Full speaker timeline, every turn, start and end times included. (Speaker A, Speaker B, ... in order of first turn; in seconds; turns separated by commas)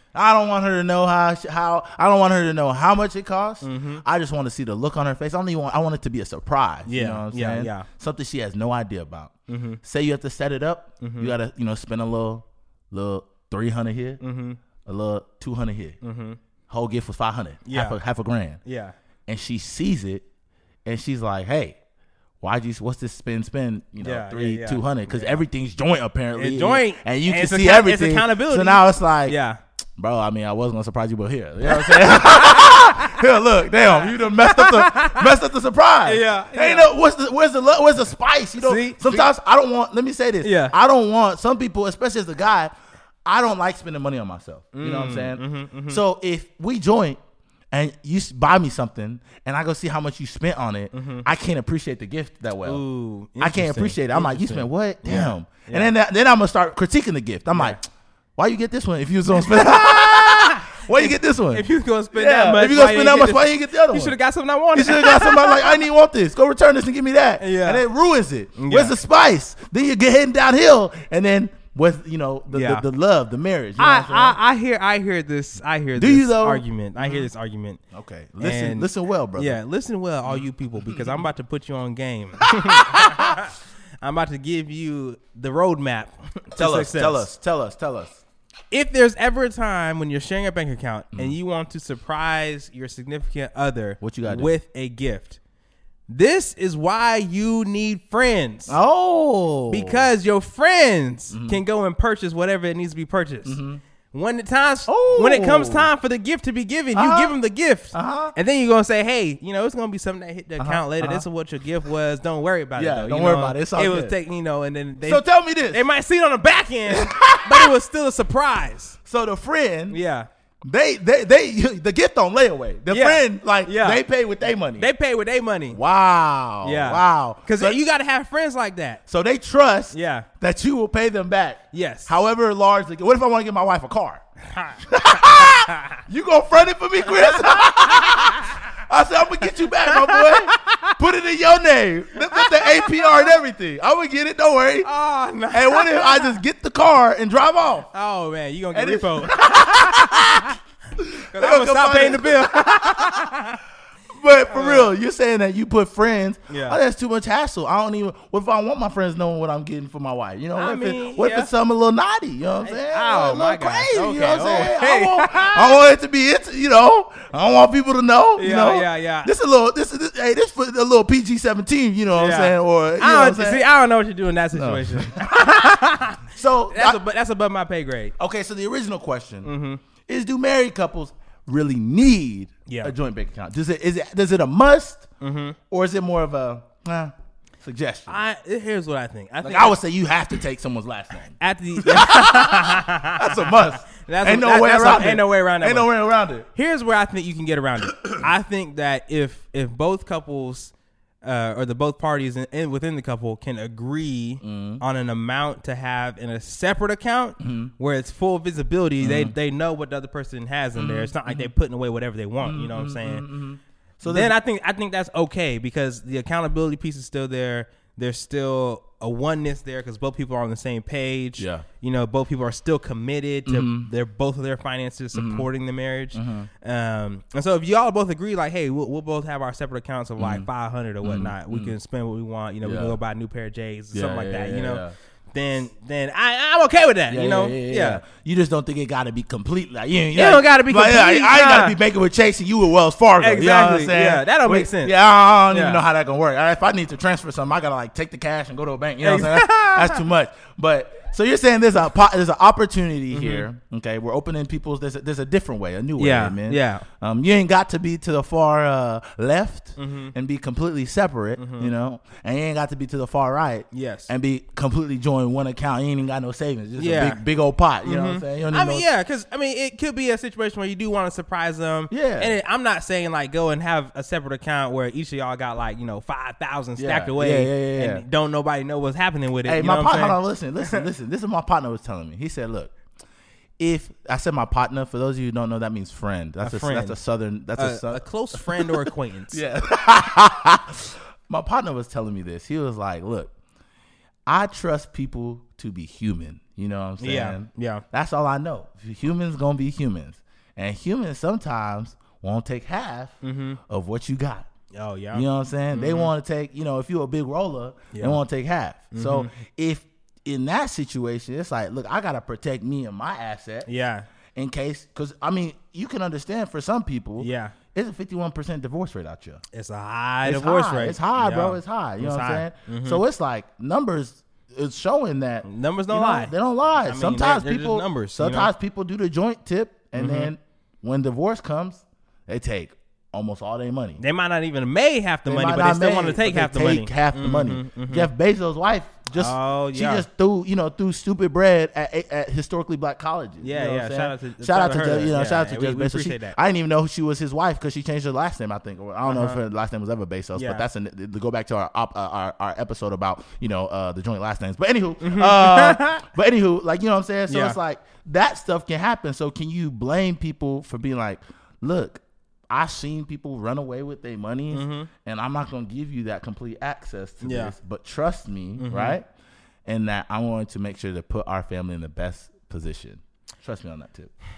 Speaker A: 0.1-14.2, Speaker B: 3.6-4.0, Speaker B: 6.9-7.9, Speaker B: 9.5-9.8, Speaker B: 11.0-11.3, Speaker B: 14.2-14.6, Speaker A: 14.8-16.0, Speaker B: 16.0-16.4, Speaker A: 16.7-18.6, Speaker B: 17.7-18.0, Speaker B: 18.6-18.9, Speaker A: 19.3-20.2, Speaker A: 20.9-21.8, Speaker A: 22.4-29.4, Speaker B: 24.0-25.4, Speaker B: 26.4-29.6, Speaker A: 30.0-42.7, Speaker B: 31.6-33.2, Speaker B: 33.8-35.3, Speaker B: 36.0-36.9, Speaker B: 38.6-39.3, Speaker B: 40.4-40.7, Speaker A: 43.2-47.2, Speaker B: 44.8-46.0, Speaker A: 47.7-52.8, Speaker B: 50.9-51.2, Speaker B: 52.6-55.9, Speaker A: 53.4-57.8, Speaker B: 57.5-57.8, Speaker A: 58.4-64.2, Speaker B: 59.3-65.8, Speaker A: 64.7-74.4, Speaker B: 67.4-67.8, Speaker B: 68.6-69.0, Speaker B: 72.5-72.8, Speaker B: 73.8-77.8, Speaker A: 76.0-77.3, Speaker A: 77.9-79.6, Speaker B: 78.4-87.3, Speaker A: 80.3-81.2, Speaker A: 82.4-83.4, Speaker A: 86.6-88.2, Speaker B: 88.7-95.4, Speaker A: 94.0-94.5, Speaker B: 96.1-98.8, Speaker A: 98.7-100.1, Speaker B: 99.7-103.6, Speaker A: 101.3-101.6, Speaker A: 103.5-103.8, Speaker B: 104.1-119.0, Speaker A: 104.9-105.9, Speaker A: 106.9-107.4, Speaker A: 107.9-108.3, Speaker A: 110.6-111.2, Speaker A: 112.8-114.1, Speaker A: 115.0-115.8, Speaker A: 116.9-117.7, Speaker A: 119.1-120.0, Speaker B: 119.9-120.3, Speaker A: 120.7-124.9, Speaker B: 122.9-124.0, Speaker B: 124.8-125.8, Speaker A: 125.7-127.8, Speaker B: 126.6-129.0, Speaker A: 129.1-134.2, Speaker B: 129.9-130.3, Speaker B: 131.7-132.1, Speaker B: 134.5-136.0, Speaker A: 134.8-144.9, Speaker B: 137.1-138.5, Speaker B: 139.6-140.9, Speaker B: 142.2-143.3, Speaker B: 144.8-146.4, Speaker A: 145.5-147.9, Speaker B: 147.9-150.5, Speaker A: 148.7-153.3, Speaker B: 151.3-153.6, Speaker A: 154.2-173.6, Speaker B: 154.5-154.9, Speaker B: 156.5-156.8, Speaker B: 160.6-161.5, Speaker B: 162.6-165.8, Speaker B: 168.4-169.3, Speaker B: 172.2-178.1, Speaker A: 174.5-175.2, Speaker A: 176.3-177.0, Speaker A: 178.2-179.5, Speaker B: 179.4-179.8, Speaker A: 180.1-185.1, Speaker B: 182.7-182.9, Speaker B: 185.2-185.6, Speaker A: 185.7-188.2, Speaker B: 188.1-189.8, Speaker A: 189.4-196.5, Speaker B: 191.4-195.9, Speaker B: 196.5-200.7, Speaker A: 197.9-198.2, Speaker B: 201.2-213.2, Speaker A: 204.4-204.8, Speaker A: 207.4-207.7, Speaker A: 209.0-209.3, Speaker A: 210.8-211.5, Speaker A: 212.4-214.3, Speaker B: 214.1-238.0, Speaker A: 221.4-221.7, Speaker A: 223.5-223.9, Speaker A: 225.1-225.5, Speaker A: 226.1-226.5, Speaker A: 230.2-230.5, Speaker A: 231.0-231.7, Speaker A: 232.6-233.0, Speaker A: 233.9-234.9, Speaker A: 237.1-268.9, Speaker B: 240.1-241.8, Speaker B: 243.2-244.9, Speaker B: 245.5-245.8, Speaker B: 249.0-250.0, Speaker B: 253.1-253.5, Speaker B: 256.0-256.8, Speaker B: 259.8-260.1, Speaker B: 261.4-261.7, Speaker B: 263.7-264.1, Speaker B: 266.8-267.2, Speaker B: 267.8-280.8, Speaker A: 271.9-272.3, Speaker A: 276.8-278.0, Speaker A: 279.5-282.7, Speaker A: 283.6-293.3, Speaker B: 286.4-287.0, Speaker B: 287.6-289.4, Speaker A: 294.3-303.1, Speaker B: 297.0-297.8, Speaker B: 303.2-303.6, Speaker A: 303.7-304.5, Speaker B: 304.7-306.1, Speaker A: 305.1-313.7, Speaker B: 307.9-308.2, Speaker B: 308.9-309.3, Speaker B: 313.7-314.1, Speaker A: 314.4-319.4, Speaker B: 317.2-317.6, Speaker B: 319.5-323.0, Speaker A: 320.2-334.0, Speaker B: 325.4-328.5, Speaker B: 329.9-330.3, Speaker B: 334.0-338.1, Speaker A: 335.3-369.1, Speaker B: 339.2-340.1, Speaker B: 343.4-346.4, Speaker B: 349.1-349.4, Speaker B: 350.4-350.6, Speaker B: 355.0-356.0, Speaker B: 357.3-357.6, Speaker B: 364.5-364.9, Speaker B: 367.2-367.5, Speaker B: 368.6-369.0, Speaker A: 369.7-374.1